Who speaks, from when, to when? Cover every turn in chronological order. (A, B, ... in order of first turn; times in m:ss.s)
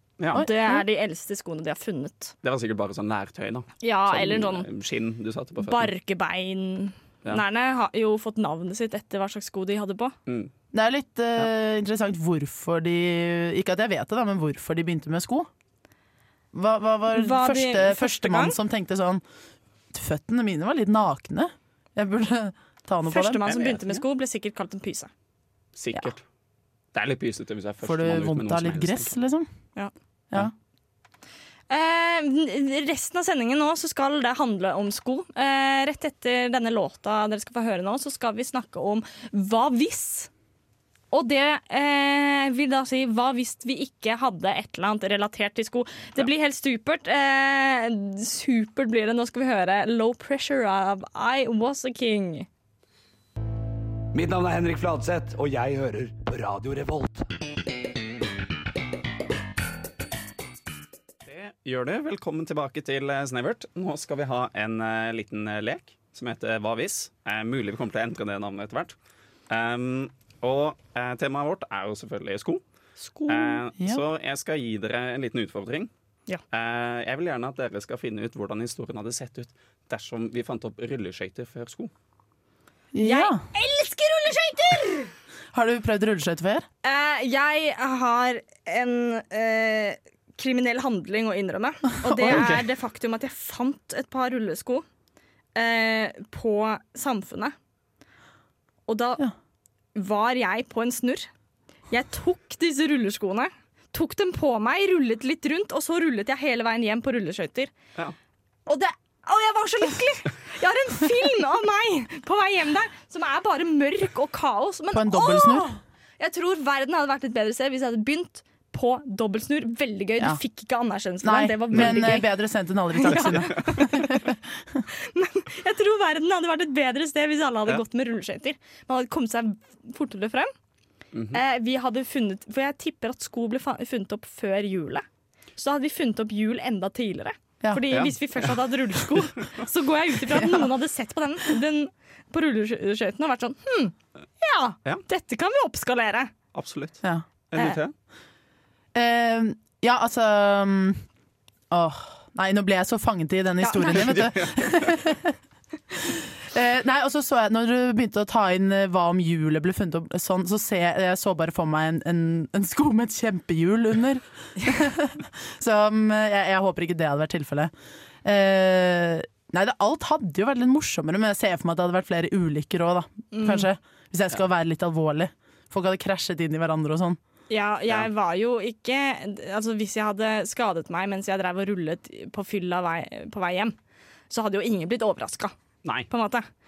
0:00.3-0:00.8 A
0:00.3-0:02.3 B
0:02.4-0:05.9 C
0:03.8-0:04.7 B
0:05.6-0:10.1 B
0:10.3-0:10.5 C
0:10.7-0:15.5 A
0:16.5-0:19.2 A
0:17.1-0:18.6 B
0:19.9-0:23.4 A
0:23.1-0:25.1 B
0:23.4-0:24.0 C
0:25.8-0:26.2 C
0:26.9-0:29.1 C
0:27.8-0:29.5 A
0:31.7-0:40.3 B
0:41.1-0:52.5 B
0:54.1-0:57.3 D
1:01.2-1:08.9 C
1:09.5-1:12.6 C
1:13.0-1:13.6 B
1:13.3-1:15.9 C
1:16.5-1:21.9 C
1:22.9-1:23.4 A
1:23.0-1:25.1 B
1:25.5-1:26.6 A
1:26.8-1:34.8 B
1:32.0-1:32.5 A
1:32.3-1:32.6 C
1:35.6-1:37.5 B
1:38.9-1:39.2 B
1:39.9-1:41.3 B
1:41.9-1:47.7 B
1:48.7-2:02.2 B
1:54.9-1:55.7 A
2:01.2-2:04.8 A
2:03.0-2:04.2 B
2:04.9-2:10.5 B
2:11.1-2:11.4 C
2:11.3-2:15.0 B
2:15.6-2:26.3 B
2:26.5-2:27.0 C
2:27.5-2:27.9 C
2:28.9-2:31.0 A
2:31.7-2:35.4 A
2:33.6-2:34.2 B
2:33.9-2:34.9 C
2:35.9-2:47.7 A
2:48.2-2:57.2 A
2:53.3-2:53.7 B
2:57.5-3:03.7 B
3:04.3-3:05.6 B
3:06.1-3:06.5 B